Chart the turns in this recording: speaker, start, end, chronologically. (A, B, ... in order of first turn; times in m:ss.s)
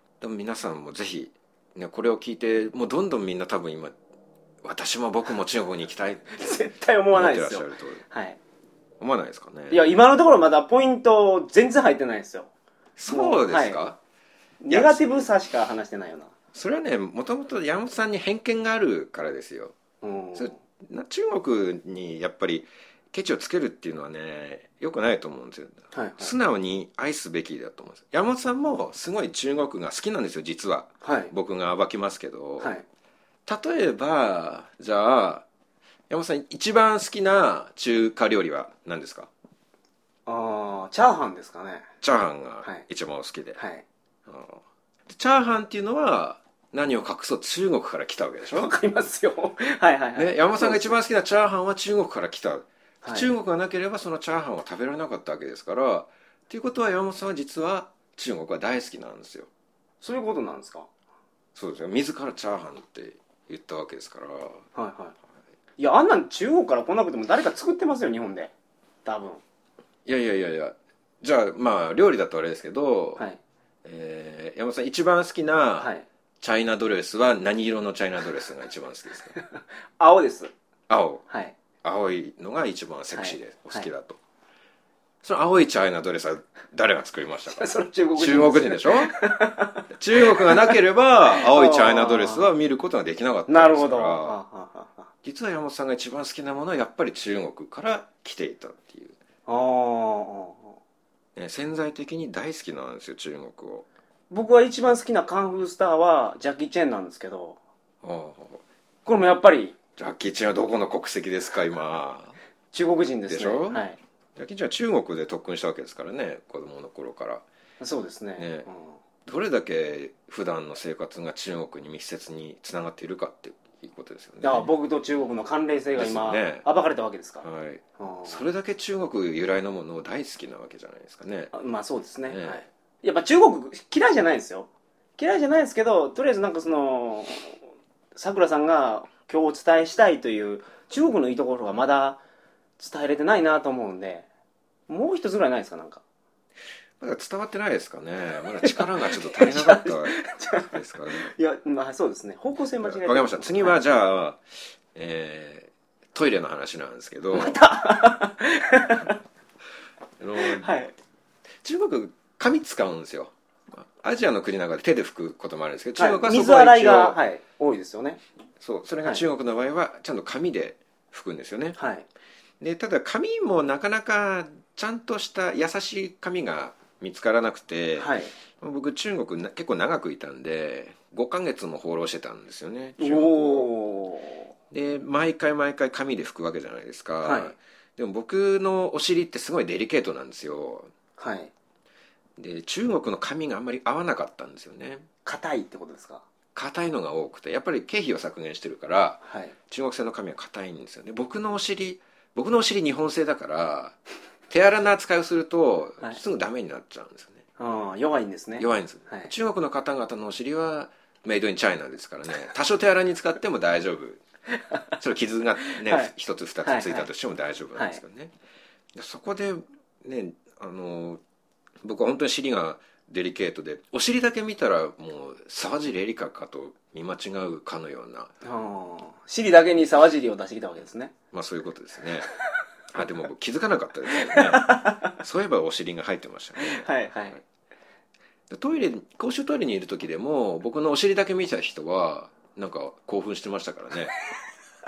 0:00.2-0:03.9 A
0:04.6-0:06.6 A
0:06.4-0:08.4 B
0:07.1-0:08.0 A
0:09.0-0:09.9 A
0:09.7-0:12.5 B
0:13.0-0:14.0 A
0:13.1-0:13.8 B
0:14.6-0:16.3 B
0:14.7-0:15.3 A
0:16.5-0:19.7 A
0:20.0-0:20.6 B
0:20.4-0:32.7 A
0:25.9-0:26.3 B
0:31.0-0:31.3 B
0:33.4-0:35.4 A
0:36.1-0:39.3 A
0:40.2-0:41.9 B
0:42.0-0:43.6 A
0:43.6-0:43.8 B
0:44.2-0:48.7 A
0:48.5-0:51.0 B
0:50.2-0:59.5 A
0:53.0-0:53.3 B
1:00.0-1:00.9 B
1:01.5-1:04.6 A
1:04.7-1:05.1 B
1:05.8-1:08.5 B
1:09.0-1:09.4 B
1:10.0-1:13.2 A
1:13.8-1:19.4 A
1:15.8-1:16.1 B
1:19.4-1:20.5 B
1:20.9-1:21.2 A
1:21.3-1:21.5 B
1:21.8-1:24.2 A
1:23.1-1:23.9 B
1:25.2-1:29.1 A
1:27.4-1:30.7 B
1:29.9-1:34.4 A
1:31.3-1:32.5 B
1:33.5-1:35.1 B
1:35.2-1:39.2 A
1:39.4-1:40.8 B
1:41.3-1:43.8 A
1:44.3-1:47.6 B
1:48.0-1:48.6 A
1:49.0-1:49.8 B
1:50.0-1:52.4 A
1:52.7-1:54.0 B
1:53.3-1:53.8 A
1:54.4-1:57.4 A
1:57.8-1:59.0 B
1:58.4-1:58.7 A
1:59.2-2:04.7 A
2:04.4-2:07.4 B
2:06.0-2:06.6 A
2:07.4-2:11.5 A
2:08.0-2:08.4 B
2:11.5-2:17.6 B
2:12.3-2:12.6 A
2:18.2-2:22.2 B
2:22.8-2:24.3 B
2:24.9-2:26.0 B
2:27.0-2:31.3 A
2:28.6-2:33.8 B
2:32.8-2:34.4 A
2:34.9-2:37.6 A
2:37.3-2:39.2 B
2:40.2-2:40.7 A
2:40.4-2:40.9 B
2:41.6-2:47.2 A
2:46.0-2:48.2 B
2:48.6-2:51.8 A
2:51.8-2:52.0 B
2:52.6-3:03.7 A
2:58.0-2:58.3 B
3:03.0-3:04.5 B
3:04.7-3:10.9 A
3:07.2-3:07.5 B
3:11.2-3:11.5 B
3:12.4-3:15.1 A
3:15.2-3:16.2 B
3:16.5-3:24.0 A
3:19.2-3:19.5 B
3:24.5-3:27.4 A
3:27.6-3:29.3 B
3:28.6-3:34.2 A
3:34.6-3:34.9 B
3:35.0-3:38.3 A
3:35.8-3:36.1 B
3:36.6-3:37.1 B
3:37.7-3:38.0 B
3:38.9-3:41.2 A
3:41.8-3:48.3 A
3:48.4-3:51.1 B
3:51.3-3:52.3 A
3:52.9-3:56.9 A
3:54.1-3:55.2 B
3:56.6-3:57.4 B
3:58.5-4:04.1 A